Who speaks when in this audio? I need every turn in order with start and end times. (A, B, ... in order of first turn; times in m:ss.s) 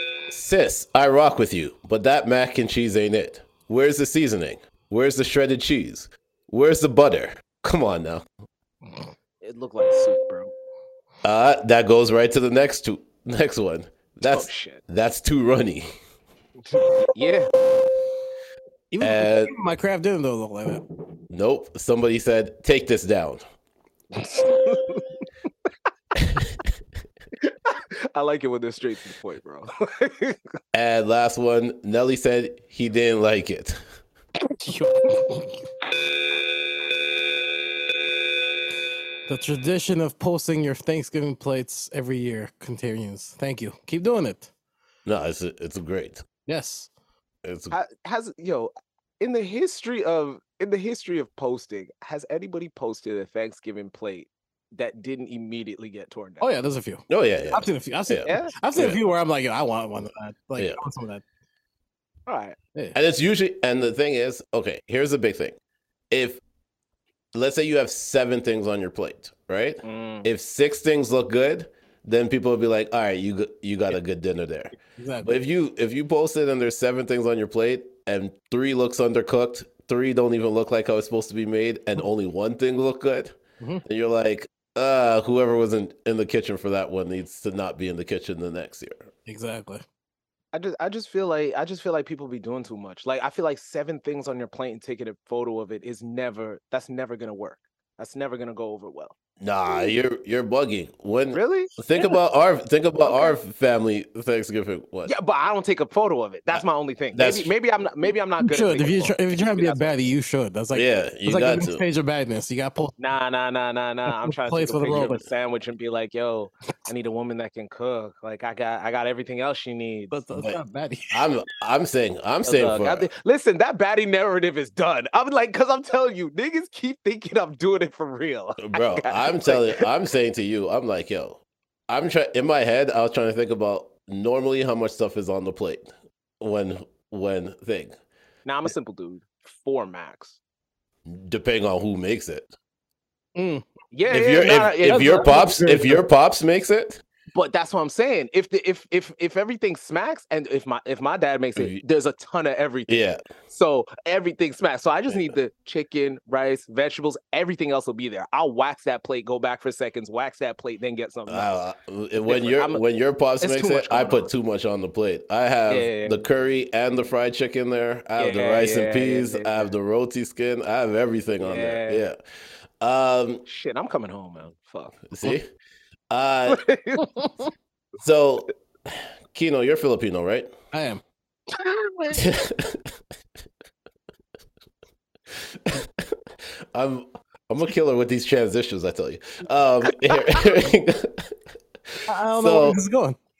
0:00.3-0:08.2 A
0:09.4-0:10.5 B
0:11.2-0:15.9 A
0:14.3-0:14.8 B
0:16.7-0:17.5 B
0:18.9-0:20.8 C
0:19.0-0:19.5 A
0:21.3-0:23.4 A
0:24.1-0:25.0 B
0:26.2-0:26.5 A
0:27.4-0:30.4 B
0:30.7-0:33.8 A
0:34.6-0:35.5 C
0:39.3-0:44.5 C
0:45.0-0:46.2 A
0:46.5-0:46.9 C
0:47.4-0:47.7 A
0:47.7-0:56.4 B
0:56.4-1:01.2 C
0:57.1-0:59.0 A
0:58.2-0:58.5 B
1:02.3-1:02.6 B
1:02.9-1:05.6 A
1:06.1-1:06.4 A
1:07.3-1:14.7 A
1:09.8-1:10.3 B
1:15.0-1:15.3 C
1:15.2-1:29.1 A
1:29.3-1:29.8 C
1:30.5-1:39.1 B
1:39.4-1:45.1 A
1:41.3-1:41.8 B
1:43.0-1:43.3 B
1:45.1-1:49.9 B
1:47.1-1:47.5 A
1:48.4-1:52.9 C
1:50.7-1:51.8 A
1:53.0-2:00.1 B
1:54.1-1:55.2 C
2:00.1-2:01.1 C
2:01.1-2:03.1 A
2:02.4-2:09.8 B
2:08.6-2:18.0 A
2:18.4-2:20.4 B
2:21.0-2:22.5 A
2:23.4-2:23.6 C
2:23.9-2:25.3 B
2:24.1-2:27.0 A
2:24.8-2:26.0 C
2:27.3-2:32.9 B
2:32.9-2:33.2 A
2:33.5-2:41.5 B
2:41.3-2:52.2 A
2:42.2-2:42.8 B
2:43.4-2:44.3 B
2:45.7-2:46.2 B
2:48.2-2:49.7 B
2:51.4-2:52.0 B
2:52.8-2:53.4 A
2:53.4-2:55.0 B
2:55.1-2:55.5 A
2:56.1-2:56.6 A
2:56.5-2:57.0 B
2:58.0-2:58.5 A
2:59.3-3:00.5 A
3:00.7-3:01.0 C
3:01.6-3:02.2 B
3:02.1-3:02.8 A
3:05.6-3:06.1 A
3:06.7-3:11.3 A
3:12.1-3:13.2 C
3:12.3-3:12.8 A